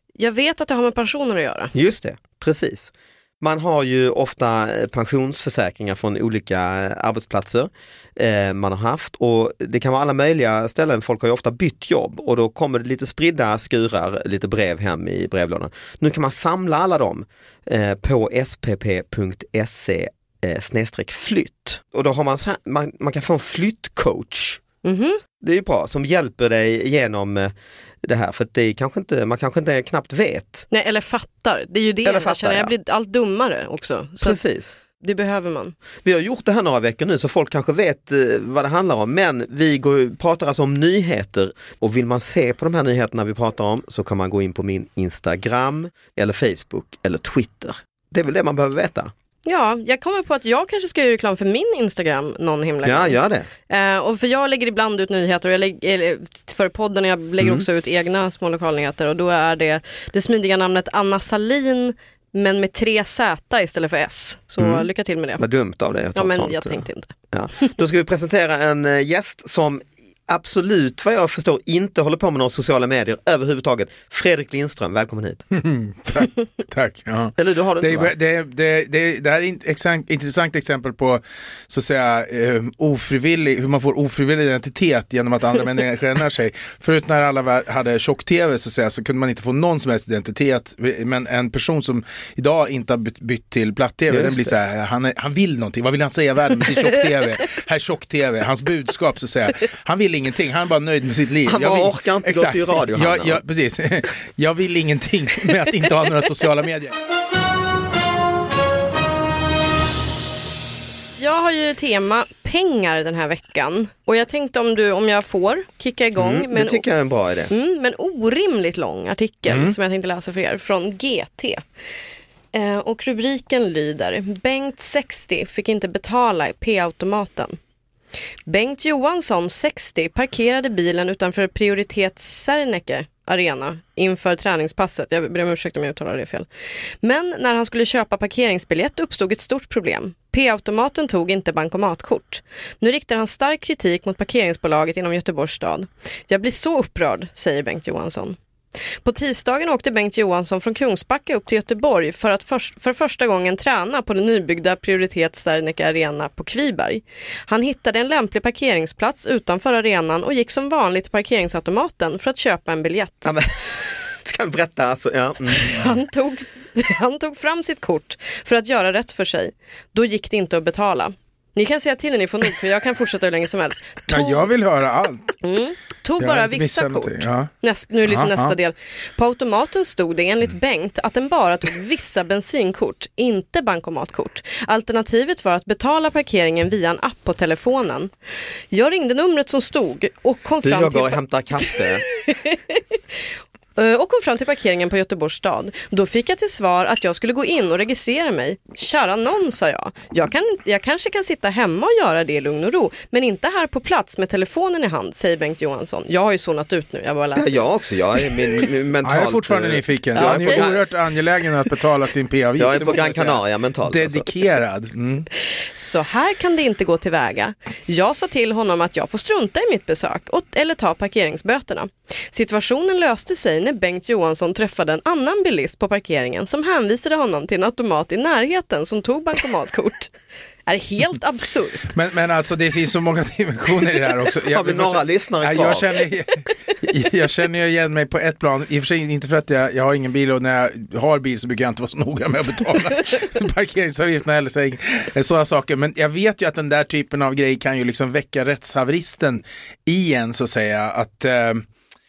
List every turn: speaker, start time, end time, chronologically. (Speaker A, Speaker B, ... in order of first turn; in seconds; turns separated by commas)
Speaker A: 0.2-1.7, Speaker B: 1.8-24.6, Speaker A: 24.8-25.2, Speaker B: 25.4-27.5, Speaker B: 28.0-30.7, Speaker A: 30.7-34.4, Speaker B: 32.0-32.7, Speaker B: 34.2-34.8, Speaker A: 35.0-35.8, Speaker B: 36.0-49.1, Speaker A: 49.5-53.2, Speaker B: 52.8-53.5, Speaker A: 53.7-65.4, Speaker B: 57.4-57.7, Speaker B: 64.6-64.9, Speaker B: 65.4-75.4, Speaker A: 66.2-67.1, Speaker C: 75.5-106.9, Speaker B: 77.4-78.1, Speaker B: 94.1-94.6, Speaker B: 101.5-103.4, Speaker A: 111.2-116.8, Speaker B: 116.2-117.5, Speaker A: 117.5-121.7, Speaker C: 119.5-119.8, Speaker A: 122.5-127.6, Speaker A: 128.5-163.4, Speaker B: 163.2-166.0, Speaker A: 165.5-174.5, Speaker C: 174.1-175.3, Speaker A: 175.4-208.7, Speaker C: 176.2-177.5, Speaker C: 178.1-178.6, Speaker B: 190.6-192.1, Speaker B: 207.3-210.8, Speaker C: 209.0-215.3, Speaker A: 210.2-210.6, Speaker B: 212.6-214.3, Speaker A: 215.5-230.1, Speaker A: 230.7-231.9, Speaker C: 231.9-251.7, Speaker B: 234.5-236.0